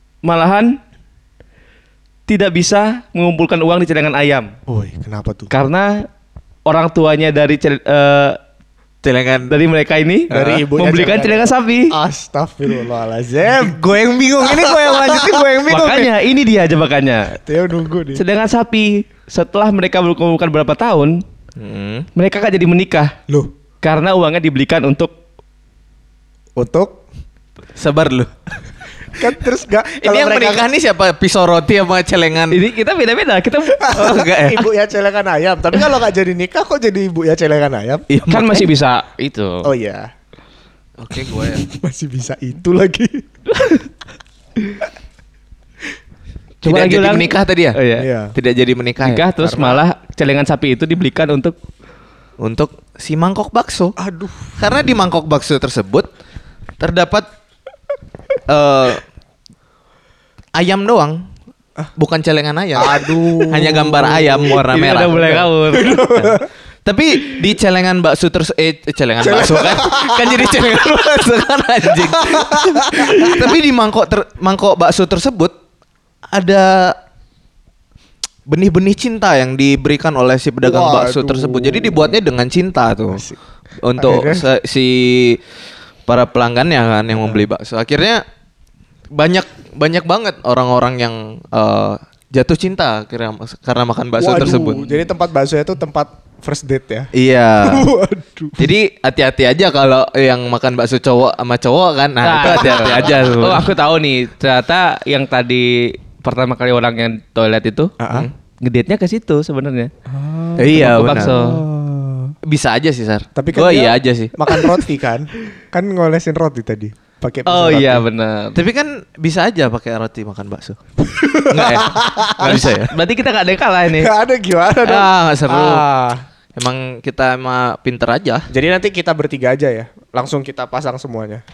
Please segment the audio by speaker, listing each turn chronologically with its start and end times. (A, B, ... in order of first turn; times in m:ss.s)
0:00.2-0:00.8 A
0:02.3-0:04.5 A
0:04.7-0:05.5 B
0:05.5-0:06.0 A
0:06.7-0:08.4 A
0:09.0-0:09.5 C
0:09.5-0:12.0 A
0:10.3-0:13.8 B
0:10.3-0:10.6 C
0:13.5-0:16.1 C
0:14.4-0:15.5 B
0:15.7-0:17.4 A
0:17.5-0:18.2 B
0:18.1-0:21.2 A
0:21.6-0:22.1 C
0:22.2-0:23.1 A
0:23.8-0:25.1 A
0:26.6-0:27.0 B
0:27.8-0:28.3 C
0:29.2-0:30.7 B
0:30.0-0:32.6 C
0:32.5-0:34.1 A
0:33.7-0:38.1 B
0:33.9-0:34.7 C
0:38.1-0:38.7 C
0:38.3-0:39.7 A
0:39.6-0:40.1 B
0:41.0-0:41.7 C
0:41.6-0:43.2 B
0:46.6-0:48.1 A
0:46.6-0:47.8 C
0:48.0-0:48.4 B
0:48.4-0:49.2 C
0:49.0-0:51.6 A
0:49.4-0:49.8 B
0:52.4-0:54.0 C
0:54.0-0:54.6 B
0:54.6-0:56.1 C
0:56.8-0:57.3 C
0:58.5-0:59.0 C
1:00.6-1:01.2 C
1:02.0-1:05.4 C
1:02.8-1:06.5 B
1:04.6-1:06.4 A
1:06.9-1:15.5 C
1:09.2-1:10.9 B
1:12.0-1:13.3 B
1:16.3-1:17.0 C
1:18.5-1:23.2 C
1:20.6-1:22.2 B
1:23.1-1:23.4 B
1:23.8-1:25.4 C
1:24.0-1:24.5 B
1:26.1-1:28.2 C
1:27.1-1:27.5 B
1:29.2-1:35.1 C
1:34.2-1:37.1 B
1:37.1-1:37.9 C
1:37.6-1:38.7 B
1:38.6-1:43.7 C
1:42.2-1:47.9 A
1:42.4-1:43.0 B
1:48.0-1:48.3 B
1:48.6-1:49.9 A
1:50.1-1:52.4 B
1:50.6-1:51.3 C
1:50.7-1:51.6 A
1:52.5-1:54.8 C
1:53.4-1:58.1 B
1:57.5-1:58.6 A
1:58.6-2:00.8 C
2:01.0-2:02.7 B
2:01.5-2:02.9 C
2:02.5-2:04.1 A
2:03.9-2:06.2 B
2:04.8-2:05.8 C
2:06.6-2:08.5 C
2:08.5-2:11.4 B